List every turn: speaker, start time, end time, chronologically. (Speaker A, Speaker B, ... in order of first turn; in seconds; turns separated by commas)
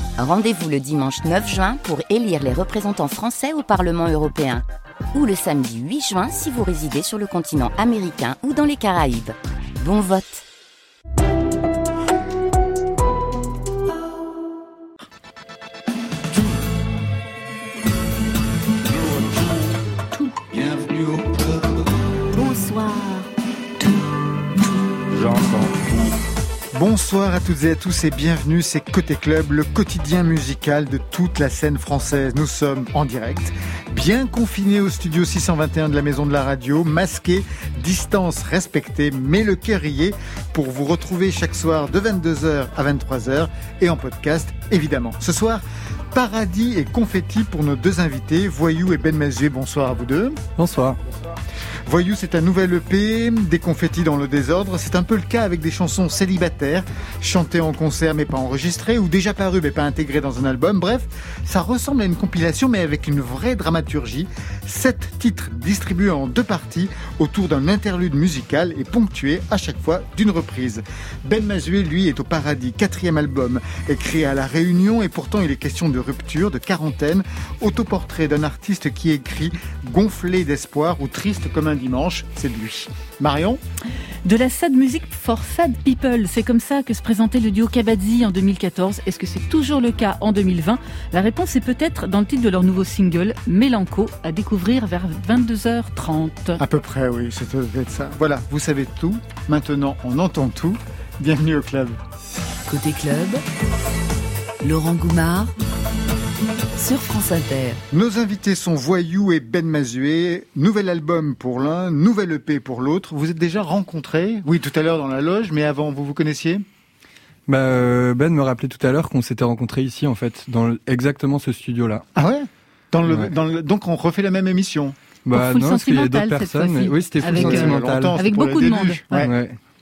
Speaker A: 0.2-10.4, Speaker B: 22.4-23.2, Speaker C: 26.7-50.4, Speaker D: 50.6-51.0, Speaker C: 51.9-83.6, Speaker E: 84.2-96.6, Speaker C: 96.6-102.0, Speaker B: 102.7-103.4, Speaker B: 104.6-105.5, Speaker B: 106.8-107.8, Speaker C: 107.9-116.6, Speaker D: 117.5-122.0, Speaker C: 122.1-125.0, Speaker D: 125.2-128.2, Speaker E: 125.3-129.2, Speaker C: 127.2-129.3, Speaker D: 129.2-129.6